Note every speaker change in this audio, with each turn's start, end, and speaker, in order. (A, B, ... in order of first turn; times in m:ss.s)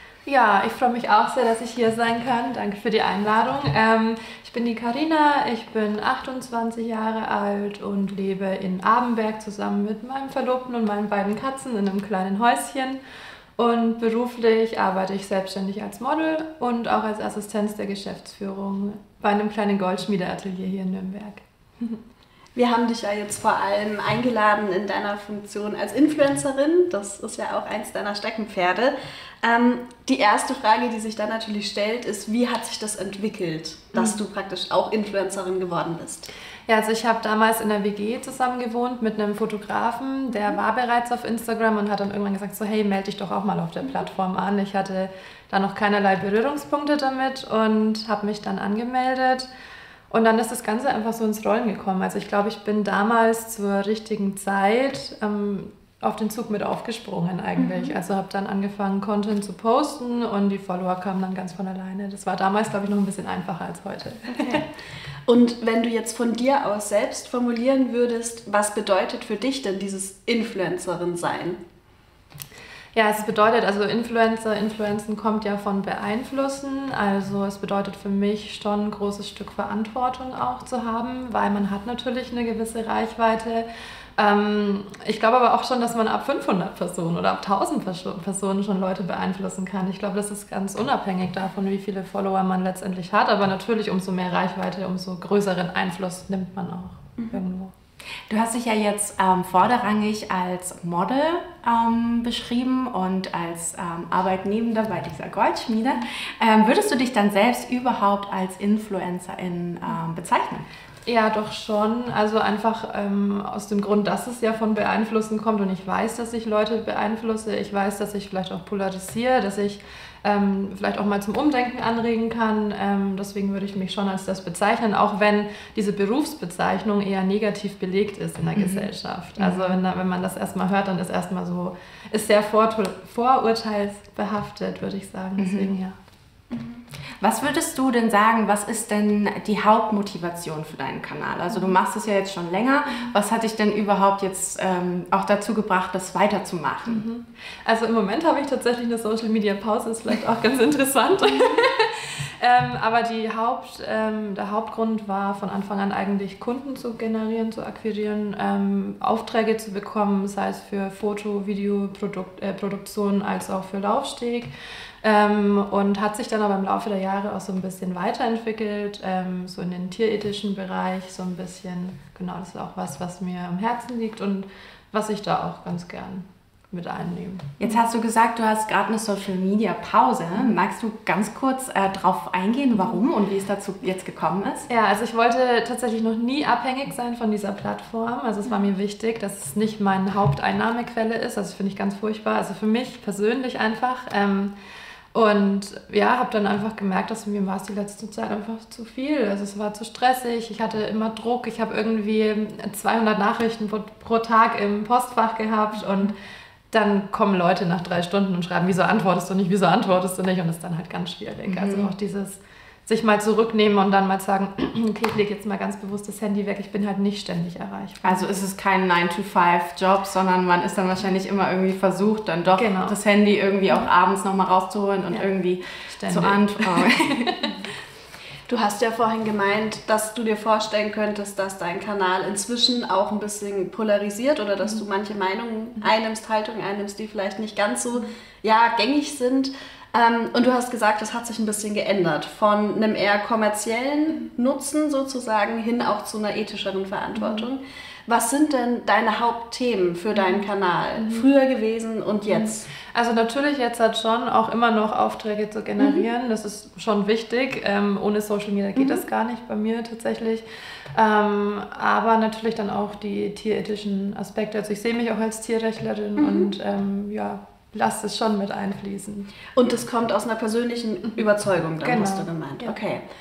0:00.2-0:13.0 A
0:13.6-0:22.0 A
0:22.6-0:36.3 B
0:36.7-0:49.5 A
0:50.1-1:04.6 A
0:57.6-0:57.9 B
1:04.3-1:04.6 B
1:05.2-1:11.6 B
1:12.9-1:23.7 A
1:24.2-1:37.7 A
1:38.3-1:50.7 C
1:51.0-2:16.0 A
2:08.6-2:09.8 C
2:15.4-2:15.7 C
2:16.5-2:16.8 B
2:17.2-2:27.0 C
2:26.9-2:44.5 A
2:45.0-2:57.7 A
2:57.6-3:04.7 C
3:04.7-3:14.5 A
3:15.1-3:26.1 A
3:26.7-3:38.3 A
3:31.5-3:31.9 C
3:38.0-3:47.5 C
3:42.6-3:43.0 A
3:45.9-3:47.6 A
3:48.5-4:12.7 B
4:07.2-4:07.5 A
4:10.1-4:10.4 A
4:11.0-4:11.2 A
4:12.3-4:29.3 A
4:15.8-4:16.0 B
4:18.8-4:19.0 B
4:26.2-4:26.5 B
4:29.5-4:33.0 B
4:31.8-4:32.8 A